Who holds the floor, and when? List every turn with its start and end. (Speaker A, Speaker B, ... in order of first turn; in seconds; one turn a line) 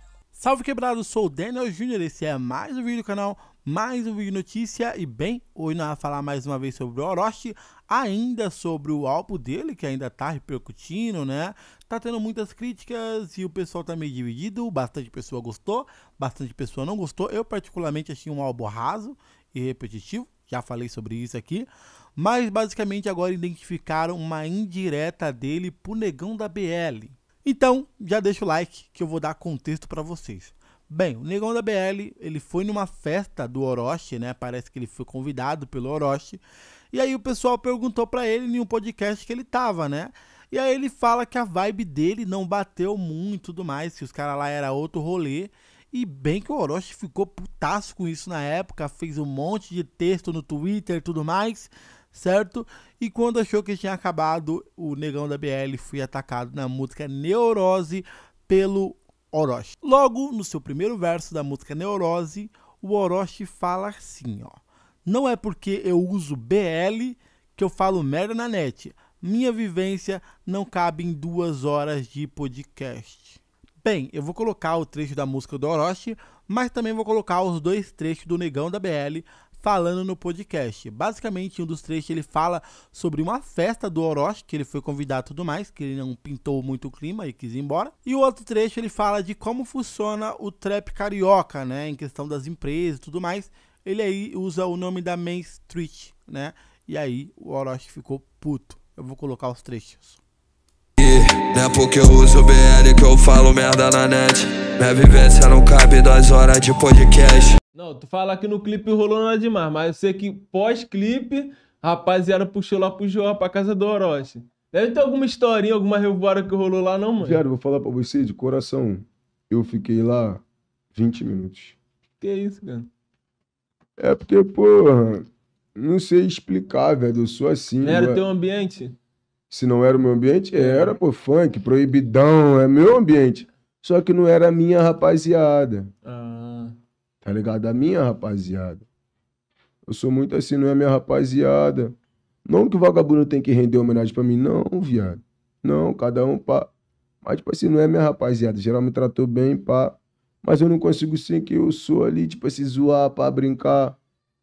Speaker A: 0.3-36.4
Speaker A: 36.9-100.2
Speaker B: 101.0-107.5
Speaker C: 107.7-117.5
Speaker D: 117.2-120.4
Speaker D: 121.0-121.8
Speaker C: 122.2-122.9
Speaker D: 124.0-125.2
Speaker D: 125.8-128.2
Speaker C: 127.8-129.0
Speaker D: 129.5-135.9
Speaker C: 130.6-131.0
Speaker C: 136.0-136.8
Speaker D: 137.2-138.8
Speaker D: 139.9-141.9
Speaker D: 142.4-146.7
Speaker D: 147.2-154.0